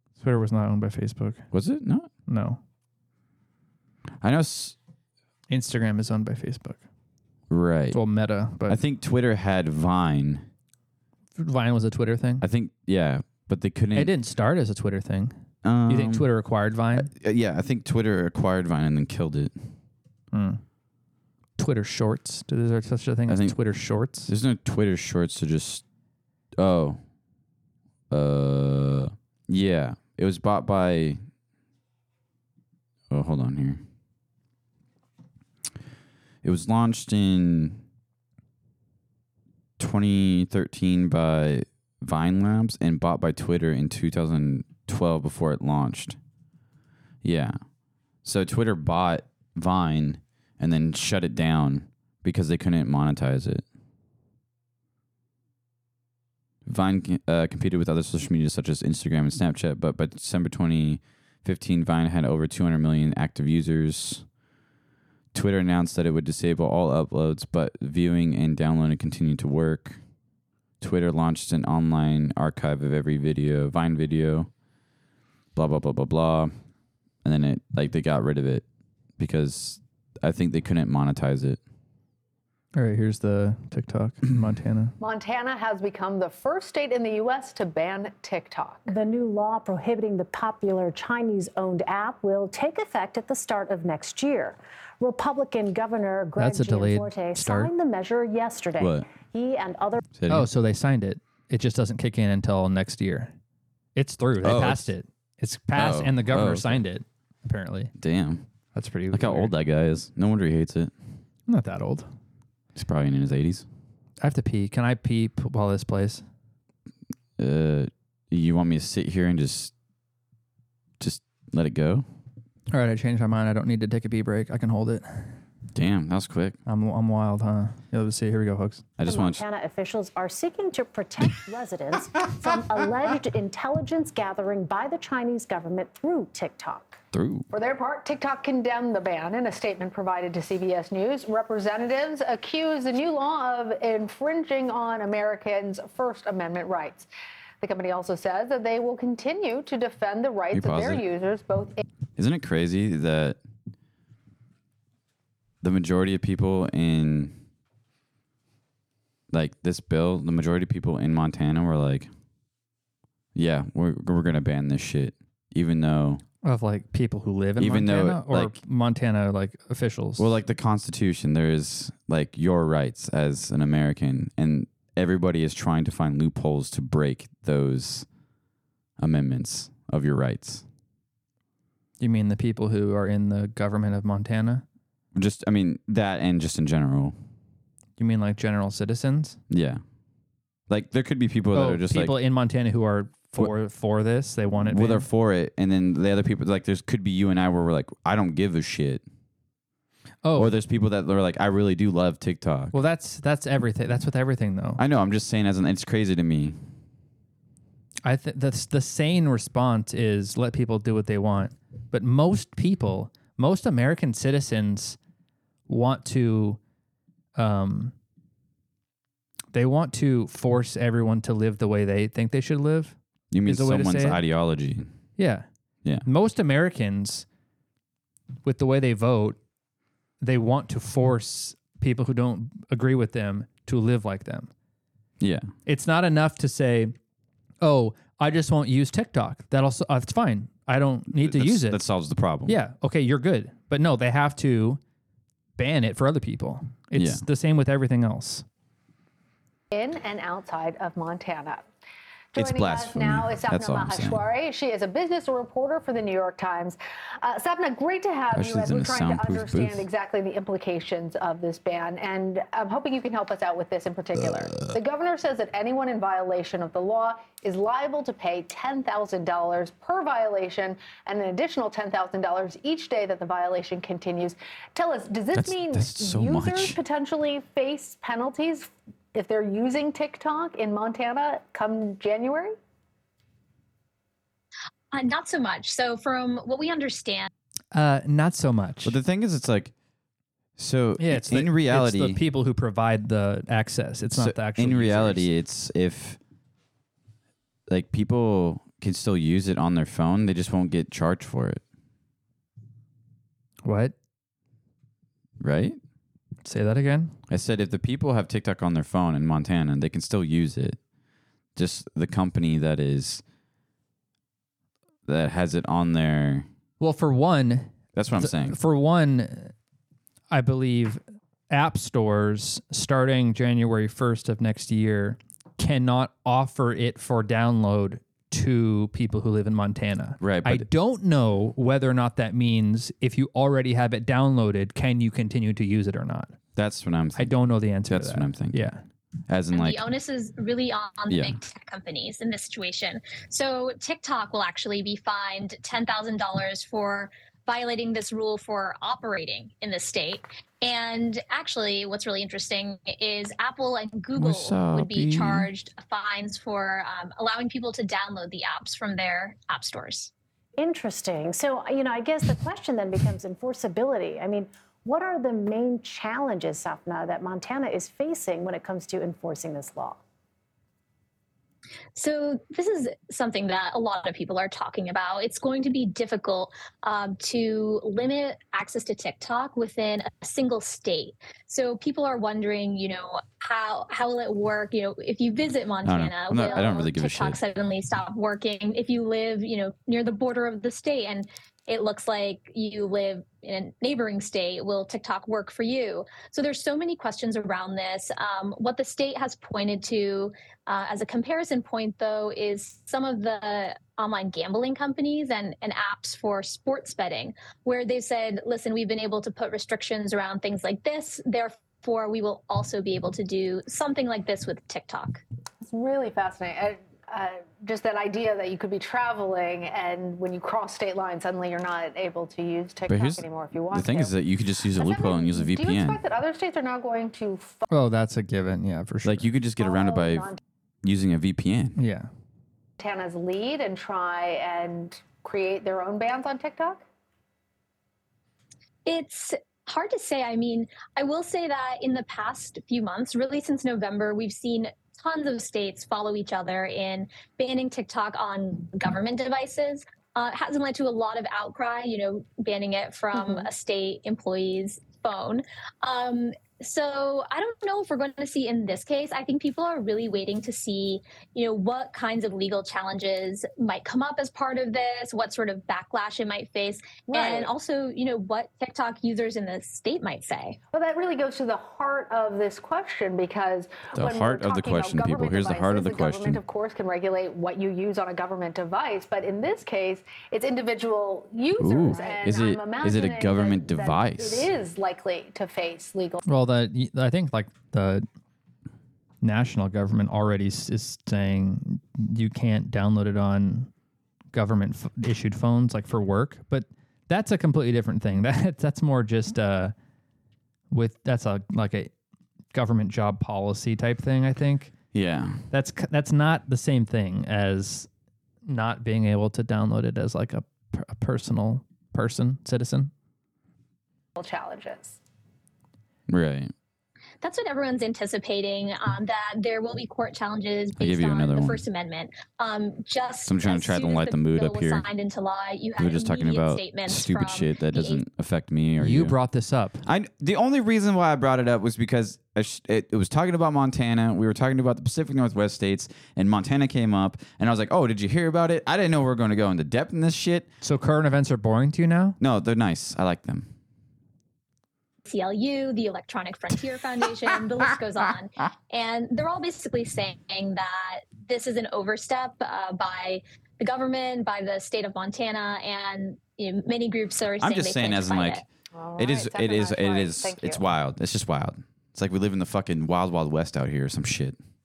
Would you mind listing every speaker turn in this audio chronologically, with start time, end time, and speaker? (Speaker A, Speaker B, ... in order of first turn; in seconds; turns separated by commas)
Speaker A: 0.2-1.4, Speaker B: 1.5-2.1, Speaker A: 2.3-2.6, Speaker B: 4.2-4.8, Speaker A: 5.5-6.8, Speaker B: 7.5-8.0, Speaker A: 7.9-8.8, Speaker B: 8.7-10.4, Speaker A: 11.4-12.4, Speaker B: 12.4-14.1, Speaker A: 13.9-17.1, Speaker B: 15.6-16.3, Speaker B: 16.9-19.6, Speaker A: 20.3-20.6, Speaker A: 21.6-24.3, Speaker B: 23.3-23.6, Speaker B: 24.2-25.8, Speaker B: 26.6-27.0, Speaker B: 28.1-31.2, Speaker B: 33.1-33.8, Speaker B: 36.4-37.8, Speaker B: 39.8-46.2, Speaker B: 47.2-47.6, Speaker B: 48.2-53.6, Speaker B: 56.6-64.2, Speaker B: 65.3-70.0, Speaker B: 70.8-74.5, Speaker B: 75.5-76.5, Speaker B: 77.2-78.6, Speaker B: 79.2-81.6, Speaker A: 82.7-84.9, Speaker C: 85.0-88.9, Speaker D: 88.9-100.0, Speaker A: 96.4-97.7, Speaker B: 98.8-99.1, Speaker B: 100.1-100.5, Speaker A: 100.3-103.3, Speaker A: 104.0-107.9, Speaker B: 104.4-104.9, Speaker B: 105.7-106.8, Speaker B: 108.0-108.4, Speaker A: 108.7-109.5, Speaker B: 109.1-110.9, Speaker A: 111.5-112.1, Speaker B: 112.7-113.7, Speaker A: 114.2-116.2, Speaker B: 117.4-119.7, Speaker B: 121.0-122.0, Speaker A: 122.7-125.4, Speaker B: 125.7-126.6, Speaker A: 126.7-128.8, Speaker B: 129.0-129.4, Speaker D: 129.0-137.0, Speaker B: 137.1-137.5, Speaker C: 137.5-147.1, Speaker C: 147.6-151.8, Speaker B: 150.5-151.0, Speaker B: 152.2-153.4, Speaker B: 155.6-157.4, Speaker B: 159.3-162.1, Speaker B: 163.3-166.2, Speaker A: 166.4-170.3, Speaker B: 167.6-168.6, Speaker B: 170.2-178.1, Speaker B: 179.0-180.6, Speaker A: 182.0-184.6, Speaker B: 185.1-187.2, Speaker A: 188.0-189.4, Speaker B: 189.5-189.8, Speaker B: 190.7-192.2, Speaker A: 191.5-195.1, Speaker B: 194.6-199.0, Speaker A: 200.2-200.5, Speaker B: 200.3-202.8, Speaker A: 202.7-204.8, Speaker B: 204.8-206.6, Speaker A: 208.0-215.0, Speaker A: 215.7-216.6, Speaker A: 217.3-217.9, Speaker A: 219.5-224.2, Speaker B: 223.3-224.9, Speaker A: 225.2-225.4, Speaker A: 226.0-227.2, Speaker A: 228.4-229.4, Speaker A: 230.2-234.5, Speaker B: 235.2-235.5, Speaker A: 235.7-236.9, Speaker A: 237.6-241.8, Speaker B: 241.1-242.6, Speaker A: 242.4-244.8, Speaker A: 245.6-248.4, Speaker B: 246.9-247.2, Speaker C: 249.7-251.7, Speaker C: 252.3-282.6, Speaker B: 252.3-254.2, Speaker B: 258.3-259.9, Speaker B: 264.2-264.7, Speaker B: 275.3-276.8, Speaker E: 284.9-287.3, Speaker A: 287.7-289.0, Speaker B: 288.8-289.7, Speaker B: 290.6-292.2, Speaker A: 291.0-295.3, Speaker B: 294.1-296.2, Speaker B: 297.7-301.6, Speaker A: 303.6-303.9, Speaker B: 305.4-305.8, Speaker A: 306.4-307.1, Speaker B: 307.3-310.8, Speaker B: 311.6-313.2, Speaker B: 315.1-316.5, Speaker A: 316.8-319.5, Speaker B: 317.9-318.6, Speaker A: 320.3-336.4, Speaker B: 330.2-330.7, Speaker B: 336.6-338.6, Speaker A: 337.1-338.8, Speaker B: 339.3-339.8, Speaker E: 339.5-360.1, Speaker B: 341.1-341.4, Speaker B: 354.2-355.5, Speaker D: 360.6-370.0, Speaker E: 371.9-415.2, Speaker B: 385.9-387.4, Speaker C: 415.6-424.1, Speaker B: 422.9-426.0, Speaker C: 424.8-427.6, Speaker A: 427.7-429.3, Speaker B: 429.0-430.3, Speaker C: 429.6-430.4, Speaker B: 430.8-431.8, Speaker A: 431.8-432.1, Speaker C: 432.8-436.8, Speaker E: 438.9-470.6, Speaker C: 453.1-453.5, Speaker C: 467.1-467.5, Speaker C: 470.7-486.2, Speaker B: 473.9-476.4, Speaker B: 481.6-484.5, Speaker A: 486.2-488.1, Speaker A: 489.2-493.7, Speaker A: 494.3-499.7, Speaker A: 500.7-501.9, Speaker A: 502.5-504.7, Speaker B: 504.9-505.4, Speaker A: 505.5-507.9, Speaker A: 508.4-512.9, Speaker C: 514.2-515.0, Speaker B: 516.1-516.5, Speaker E: 517.2-528.0, Speaker B: 520.8-521.6, Speaker B: 523.2-524.8, Speaker B: 525.8-529.1, Speaker A: 528.8-529.8, Speaker B: 529.8-540.5, Speaker A: 540.6-542.2, Speaker B: 542.2-543.5, Speaker E: 545.1-558.4, Speaker B: 557.4-558.4, Speaker C: 558.7-560.6, Speaker B: 559.0-564.4